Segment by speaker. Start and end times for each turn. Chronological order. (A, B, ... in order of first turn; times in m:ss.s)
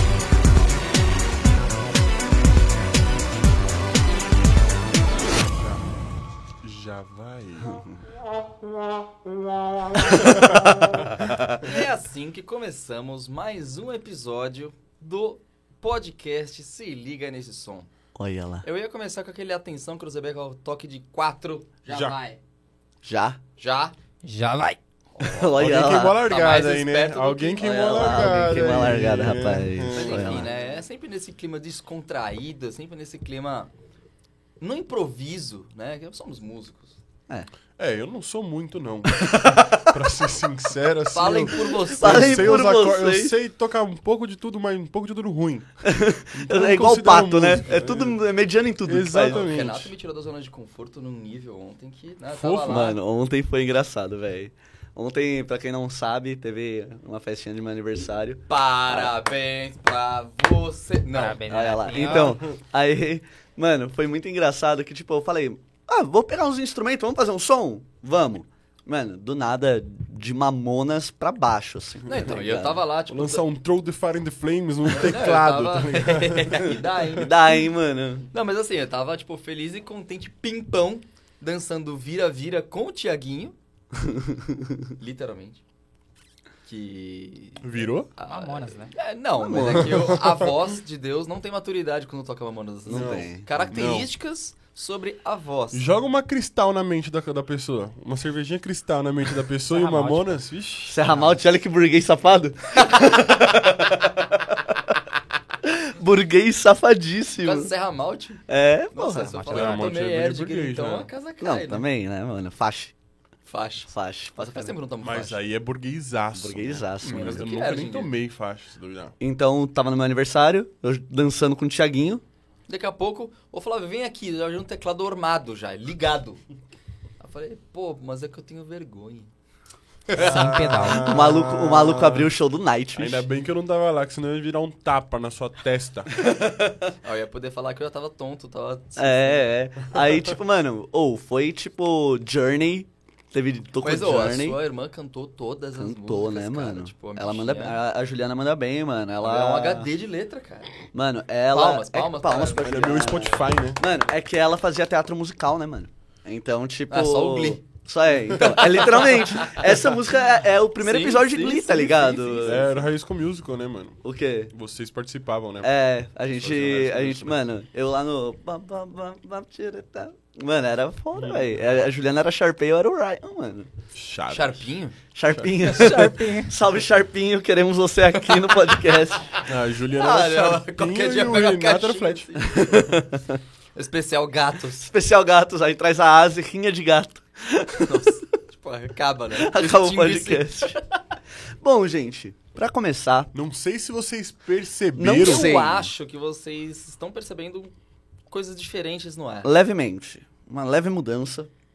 0:05.4-0:05.8 A
0:06.6-0:07.8 A
0:09.9-0:11.6 B
0:10.1-0:11.1 A
0:11.6-0:17.9 C
0:18.1-0:18.6 B
0:18.6-0:22.4 C
0:21.9-0:22.2 A
0:23.0-0:23.4 B
0:23.6-0:23.9 C
0:24.2-0:24.8 D
0:25.2-0:26.2 B
0:25.5-0:30.5 A
0:26.2-0:28.4 C
0:27.6-0:30.5 B
0:29.9-0:33.7 C
0:34.6-0:37.0 C
0:37.8-0:45.7 A
0:39.1-0:40.0 B
0:41.1-0:42.6 C
0:42.0-0:43.3 B
0:45.8-0:49.5 B
0:46.3-0:48.2 A
0:48.8-0:49.9 A
0:49.2-0:53.0 C
0:52.4-0:52.9 A
0:52.6-0:59.1 B
0:58.5-1:01.4 C
1:01.1-1:02.4 D
1:01.5-1:12.8 B
1:12.0-1:13.4 C
1:13.1-1:17.3 A
1:14.9-1:17.3 C
1:17.2-1:18.3 B
1:18.3-1:23.6 C
1:23.9-1:24.9 B
1:25.0-1:25.6 C
1:26.7-1:35.8 C
1:27.6-1:28.1 A
1:28.2-1:28.9 D
1:29.4-1:30.2 B
1:29.8-1:30.2 A
1:32.8-1:33.6 B
1:32.9-1:34.1 A
1:35.7-1:41.0 A
1:39.7-1:40.3 D
1:40.8-1:45.0 B
1:45.6-1:47.7 B
1:47.4-1:51.8 C
1:48.5-1:49.4 B
1:49.2-1:49.9 D
1:49.5-1:51.1 A
1:51.4-1:52.9 B
1:53.4-1:55.4 C
1:53.9-1:54.7 B
1:55.0-1:59.1 A
1:56.3-1:57.4 B
1:57.0-1:58.1 C
1:59.2-2:02.2 B
2:02.7-2:06.4 C
2:07.2-2:09.3 C
2:10.1-2:12.3 A
2:10.2-2:11.2 D
2:10.2-2:10.5 C
2:10.7-2:13.2 B
2:12.9-2:16.1 A
2:16.2-2:16.9 B
2:17.0-2:19.5 C
2:19.0-2:24.6 B
2:23.8-2:27.8 C
2:25.8-2:29.9 B
2:29.2-2:30.7 C
2:30.9-2:42.7 B
2:31.5-2:33.0 C
2:32.6-2:33.8 A
2:36.9-2:37.6 C
2:38.3-2:39.7 C
2:40.8-2:42.9 C
2:42.4-2:44.0 A
2:44.0-2:44.5 B
2:44.5-2:45.7 A
2:45.6-2:53.7 B
2:46.3-2:47.4 A
2:51.2-2:51.5 A
2:53.9-2:54.7 A
2:54.3-2:55.0 C
2:55.1-2:59.4 B
2:55.6-2:56.5 D
2:59.4-3:02.3 A
2:59.9-3:02.7 C
3:02.4-3:03.4 B
3:03.7-3:04.9 C
3:04.8-3:08.2 B
3:07.8-3:10.6 C
3:09.4-3:10.8 B
3:11.6-3:13.3 B
3:13.3-3:15.6 A
3:15.0-3:15.9 B
3:15.2-3:17.7 C
3:18.3-3:19.5 C
3:19.4-3:21.5 B